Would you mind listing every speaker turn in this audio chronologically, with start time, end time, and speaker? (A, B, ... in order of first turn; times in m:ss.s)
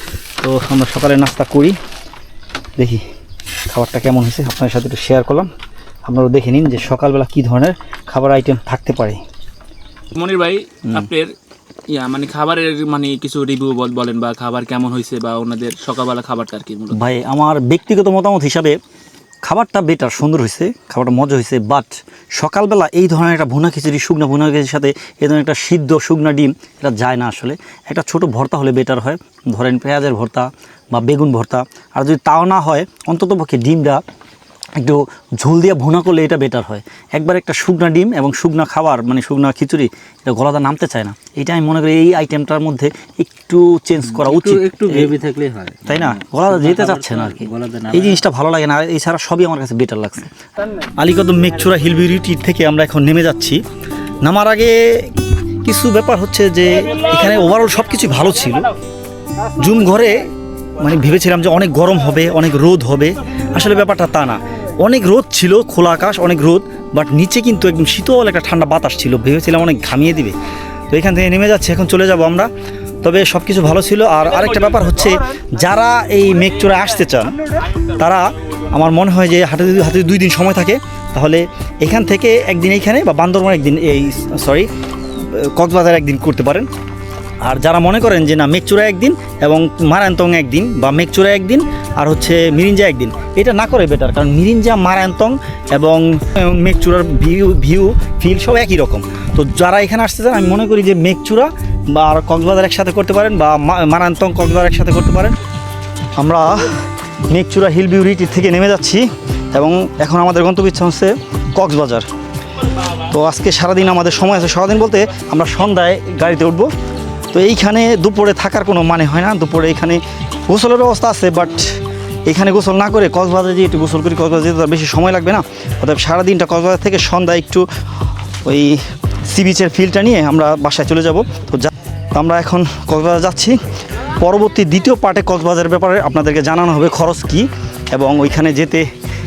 0:00.4-0:01.8 A
0:02.8-0:03.0 A
0:03.7-0:05.5 A
0:06.0-0:09.2 A
0:10.1-0:11.4 B
0:10.8-0:11.1 A
0:11.9-0:17.0 B
0:16.9-0:18.8 A
0:19.4-0:34.0 A
0:34.8-0:45.1 A
0:44.0-0:48.2 C
0:45.8-0:50.3 A
0:51.0-0:53.6 A
0:54.2-0:55.1 A
0:55.6-0:58.7 A
0:59.6-1:10.4 A
1:10.9-1:12.5 A
1:13.0-1:26.7 A
1:27.4-1:45.4 A
1:46.2-1:46.8 A
1:47.3-1:52.1 A
1:53.0-1:56.7 A
1:57.3-2:01.6 A
2:02.3-2:07.7 A
2:08.4-2:13.6 A
2:14.1-2:18.9 A